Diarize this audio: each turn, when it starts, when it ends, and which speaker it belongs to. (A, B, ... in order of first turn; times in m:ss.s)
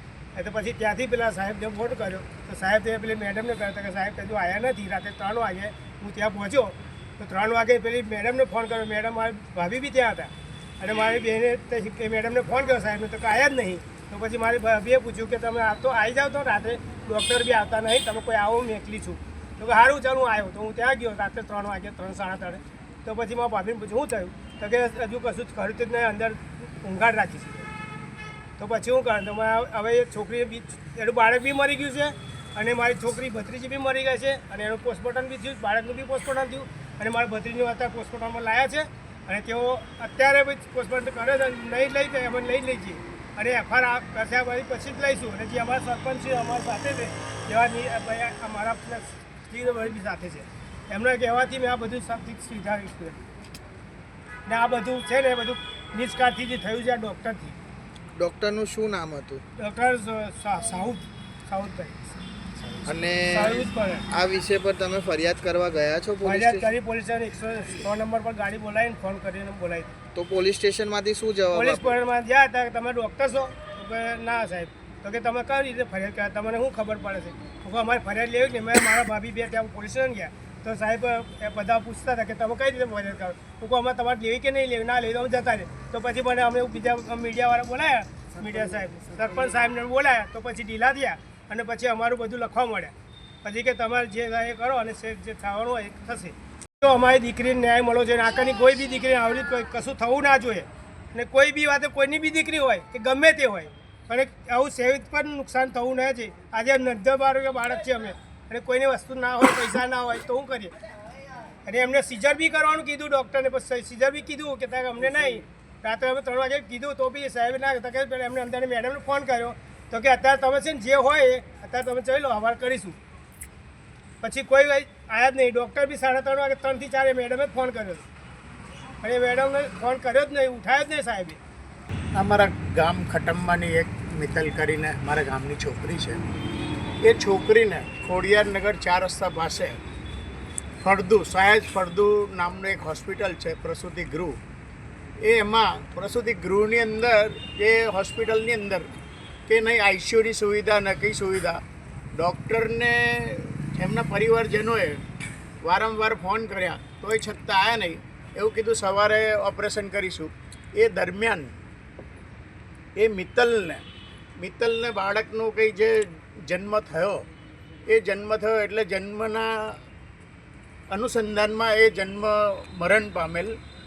0:00.3-0:27.7 A
0:28.6-0:53.2 A
0:54.4-0:57.6 A
0:58.1-0:59.4 B
0:59.6-1:02.2 A
1:02.7-1:04.0 A
1:02.8-1:06.7 B
1:06.2-1:09.9 A
1:10.1-1:12.0 B
1:11.5-1:50.7 A
1:51.6-2:03.0 A
2:04.2-2:08.0 A
2:09.0-2:11.4 A
2:12.1-2:16.2 C
2:17.0-2:19.8 C
2:20.8-2:24.4 C
2:25.2-2:28.9 C
2:29.5-2:31.6 C
2:32.1-2:35.0 C
2:35.6-2:41.5 C
2:43.0-2:43.8 C
2:44.4-2:47.2 C
2:47.9-2:49.8 C
2:50.9-2:53.6 C